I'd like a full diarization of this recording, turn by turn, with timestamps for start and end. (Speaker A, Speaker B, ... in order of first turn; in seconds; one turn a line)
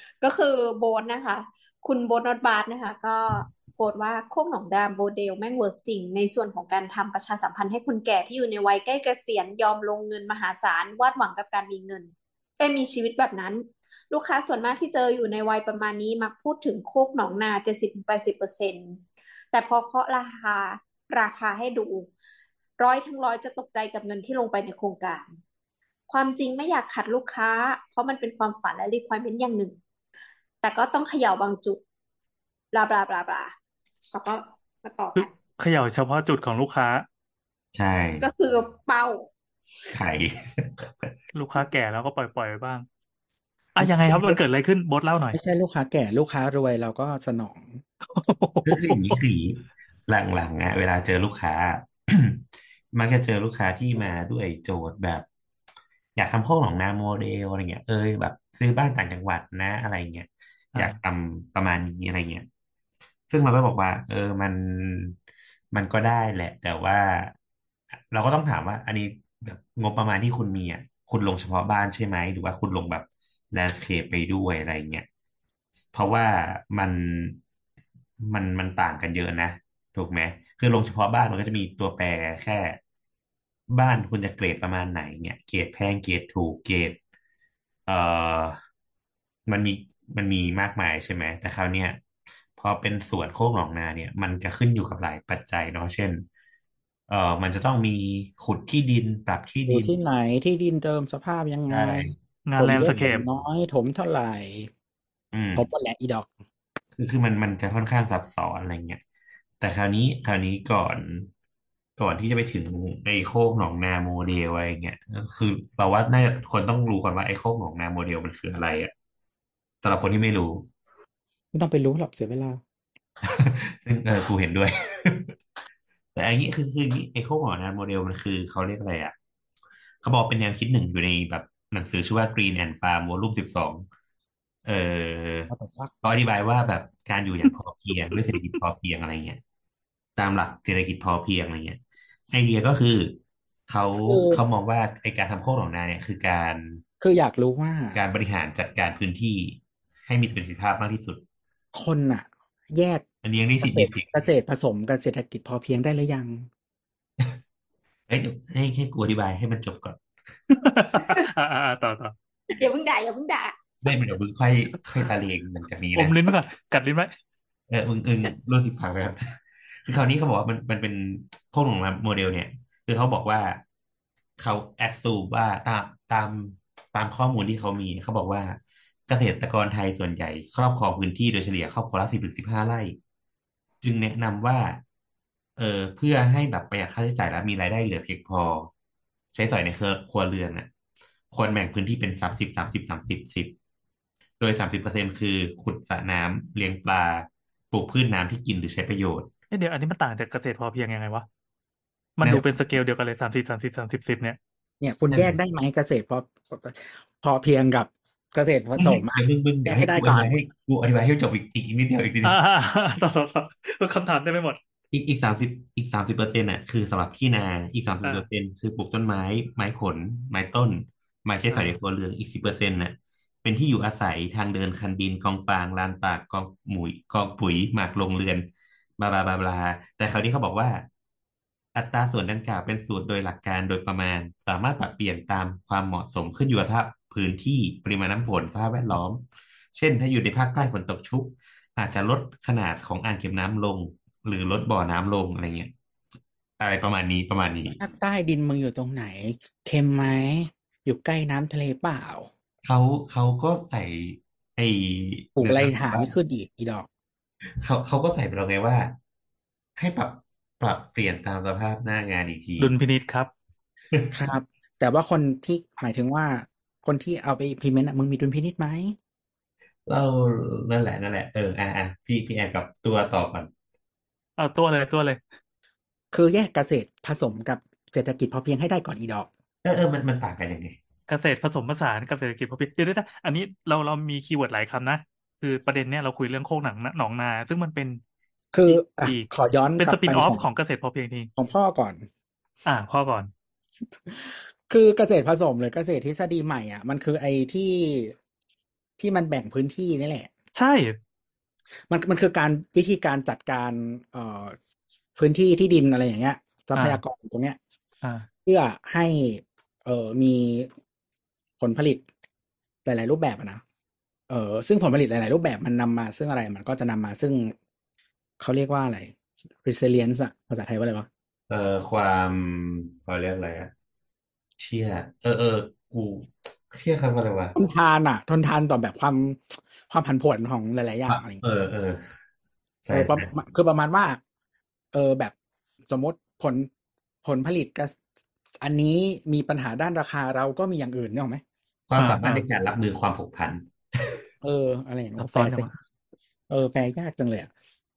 Speaker A: 0.2-22.1
Speaker A: 22.8-25.4
Speaker A: 26.1-29.8
Speaker A: 30.6-31.8
Speaker A: 32.7-33.5
Speaker A: 34.1-35.3
Speaker B: 35.1-37.0
Speaker C: 37.7-38.3
Speaker A: 38.2-39.3
Speaker C: 39.9-41.1
Speaker B: 41.3-42.8
Speaker B: 43.8-45.4
Speaker D: 43.8-44.4
Speaker D: 45.3-47.8
Speaker B: 48.1-49.2
Speaker C: 48.6-55.2
Speaker C: 56.1-62.5
Speaker C: 63.3-65.2
Speaker C: 65.7-67.3
Speaker C: 68.1-75.1
Speaker C: 75.9-77.4
Speaker C: 78.2-82.8
Speaker C: 83.7-87.0
Speaker C: 87.9-88.5
Speaker C: 89.5-92.0
Speaker C: 92.6-96.2
Speaker C: 97.1-99.9
Speaker D: 99.7-104.7
Speaker C: 101.7-102.2
Speaker B: 102.5-103.2
Speaker C: 105.3-105.6
Speaker D: 105.5-106.3
Speaker C: 107.0-109.0
Speaker C: 109.6-111.3
Speaker C: 112.0-118.9
Speaker C: 119.8-120.7
Speaker D: 121.5-122.6
Speaker C: 123.2-125.3
Speaker C: 126.1-129.1
Speaker C: 130.0-133.8
Speaker C: 134.6-135.5
Speaker D: 135.5-135.9
Speaker C: 136.0-139.4
Speaker C: 140.2-146.8
Speaker D: 144.0-144.4
Speaker D: 147.0-148.0
Speaker C: 147.9-151.2
Speaker D: 151.7-153.0
Speaker C: 153.2-154.1
Speaker D: 153.6-156.5
Speaker C: 158.1-160.0
Speaker B: 160.5-162.1
Speaker A: 162.5-163.5
Speaker C: 163.8-166.1
Speaker B: 165.9-167.1
Speaker C: 167.7-173.6
Speaker C: 174.4-183.0
Speaker C: 183.8-184.8
Speaker C: 185.6-188.7
Speaker C: 189.3-190.7
Speaker C: 191.3-193.5
Speaker C: 194.4-199.3
Speaker B: 199.5-201.2
Speaker B: 202.2-204.4
Speaker D: 204.8-210.3
Speaker C: 208.8-212.4
Speaker B: 212.2-214.6
Speaker C: 214.9-230.8
Speaker B: 221.5-221.7
Speaker C: 231.7-245.7
Speaker C: 246.6-247.8
Speaker D: 247.7-252.3
Speaker C: 252.6-256.1
Speaker D: 255.4-256.9
Speaker C: 257.6-258.9
Speaker C: 259.8-262.7
Speaker B: 262.6-263.3
Speaker D: 264.1-268.9
Speaker C: 269.9-273.5
Speaker B: 274.4-275.2
Speaker D: 276.1-279.3
Speaker C: 279.6-280.8
Speaker B: 281.1-288.0
Speaker D: 288.5-290.4
Speaker B: 288.7-291.3
Speaker D: 291.4-292.1
Speaker B: 292.6-293.3
Speaker D: 294.1-298.1
Speaker D: 299.0-300.3
Speaker B: 300.5-301.0
Speaker D: 301.9-304.6
Speaker D: 305.1-307.6
Speaker B: 306.8-307.0
Speaker B: 308.0-308.3
Speaker D: 308.4-310.7
Speaker D: 311.6-312.0
Speaker D: 312.8-313.6
Speaker D: 314.3-317.5
Speaker D: 318.4-321.1
Speaker C: 321.5-323.7
Speaker C: 324.6-327.5
Speaker D: 327.5-331.4
Speaker C: 331.1-332.1
Speaker C: 332.8-333.3
Speaker D: 332.9-334.2
Speaker D: 334.9-335.3
Speaker D: 335.9-336.7
Speaker D: 337.2-338.0
Speaker D: 338.6-341.4
Speaker C: 341.9-344.2
Speaker B: 342.0-342.4
Speaker D: 344.4-345.7
Speaker B: 345.2-345.7
Speaker D: 346.5-347.5